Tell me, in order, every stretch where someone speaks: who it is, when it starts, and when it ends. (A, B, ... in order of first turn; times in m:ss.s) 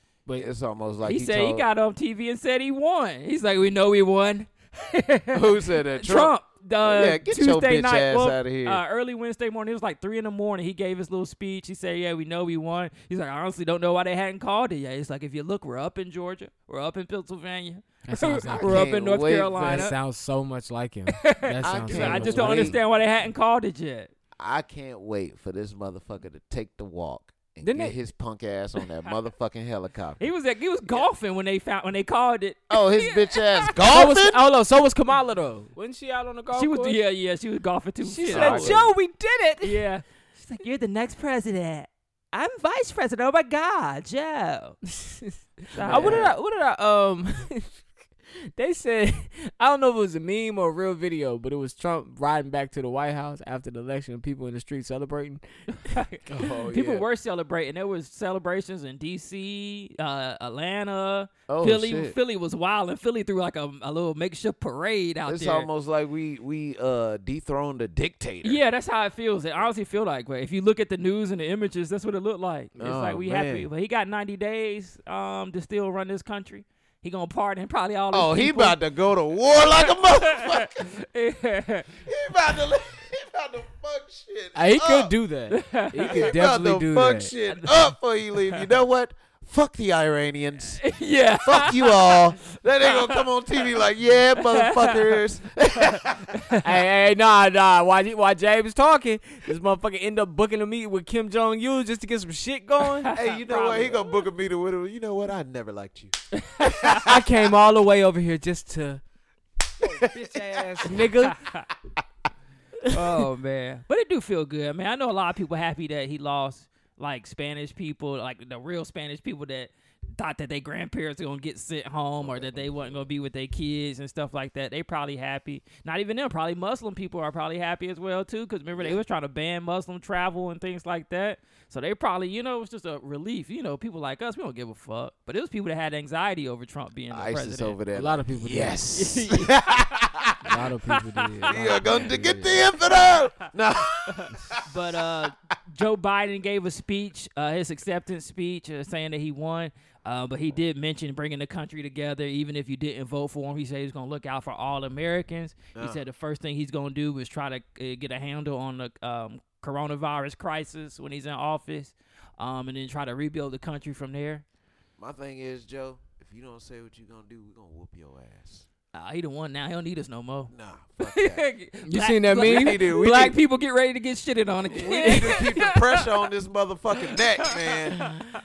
0:00.4-0:01.6 A
0:01.0-0:19.9 B
0:05.3-0:08.8 A
0:18.1-0:18.9 C
0:18.5-0:19.9 A
0:19.5-0:22.8 C
0:21.1-0:24.1 B
0:21.6-0:22.8 A
0:24.4-0:30.2 A
0:27.6-0:28.0 C
0:30.2-0:34.1 B
0:32.7-0:34.4 A
0:33.9-0:37.0 C
0:36.5-0:38.8 B
0:38.0-0:39.8 C
0:38.3-0:38.9 A
0:39.6-0:44.8 B
0:44.9-0:47.8 C
0:45.7-0:46.3 B
0:45.8-0:46.3 A
0:48.6-0:55.9 C
0:55.8-1:05.7 B
0:56.3-0:57.0 A
1:01.5-1:02.2 A
1:05.2-1:08.6 A
1:08.4-1:18.8 B
1:12.8-1:13.7 A
1:18.1-1:20.9 A
1:19.5-1:21.9 B
1:22.0-1:25.1 A
1:24.5-1:27.3 C
1:25.5-1:26.3 B
1:26.0-1:30.9 A
1:27.5-1:27.9 B
1:30.8-1:33.3 B
1:31.4-1:36.4 A
1:34.4-1:35.1 B
1:36.6-1:43.1 C
1:43.0-1:44.0 B
1:43.1-1:47.1 A
1:46.4-1:47.0 B
1:47.0-1:49.0 C
1:49.8-1:51.4 C
1:50.6-1:50.9 A
1:51.3-1:51.6 B
1:52.9-2:17.8 B
2:02.2-2:03.1 A
2:17.1-2:20.5 A
2:17.9-2:18.8 C
2:18.9-2:19.6 B
2:20.4-2:22.6 C
2:20.9-2:22.0 B
2:21.5-2:24.6 A
2:24.2-2:44.4 B
2:35.7-2:36.0 A
2:45.0-2:48.7 A
2:48.9-2:56.1 B
2:50.5-2:51.4 A
2:51.8-2:53.3 C
2:52.4-2:53.4 A
2:54.7-2:58.2 A
2:54.9-2:55.4 C
2:57.4-2:57.8 B